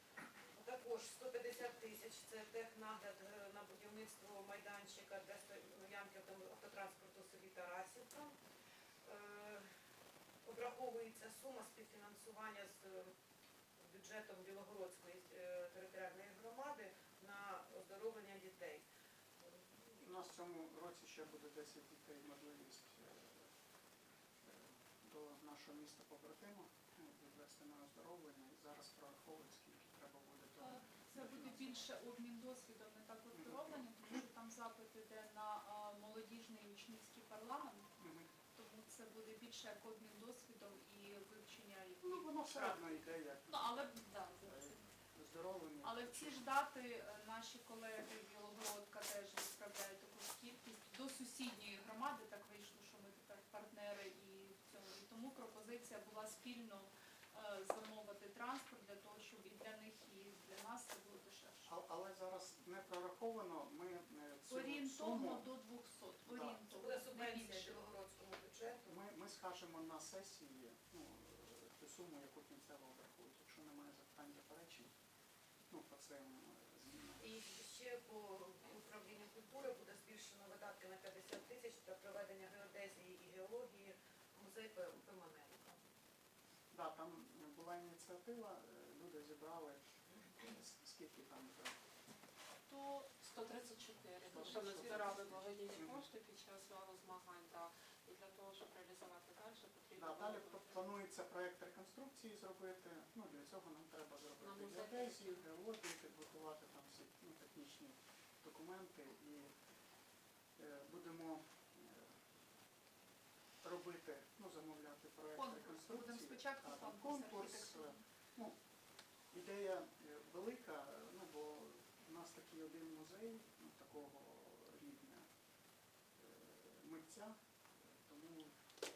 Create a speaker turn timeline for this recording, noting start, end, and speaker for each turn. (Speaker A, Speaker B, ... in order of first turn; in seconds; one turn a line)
Speaker A: 0.5-8.3
Speaker A: 9.0-9.6
Speaker A: 10.4-13.1
Speaker A: 13.8-18.8
Speaker A: 19.4-20.2
Speaker B: 20.0-23.5
Speaker B: 24.4-31.9
Speaker C: 30.6-37.9
Speaker B: 33.3-34.2
Speaker B: 38.0-38.3
Speaker C: 38.5-44.9
Speaker B: 42.0-43.7
Speaker B: 44.4-46.4
Speaker C: 45.8-61.7
Speaker B: 61.6-65.5
Speaker C: 64.5-67.8
Speaker B: 66.2-66.6
Speaker A: 66.7-68.9
Speaker B: 68.8-74.9
Speaker B: 75.7-77.3
Speaker A: 77.2-85.8
Speaker B: 86.7-91.8
Speaker D: 92.7-100.9
Speaker B: 94.2-96.0
Speaker B: 99.9-109.5
Speaker D: 104.4-105.4
Speaker B: 110.6-112.0
Speaker B: 113.6-118.6
Speaker C: 115.3-118.0
Speaker B: 119.3-125.2
Speaker B: 126.2-128.5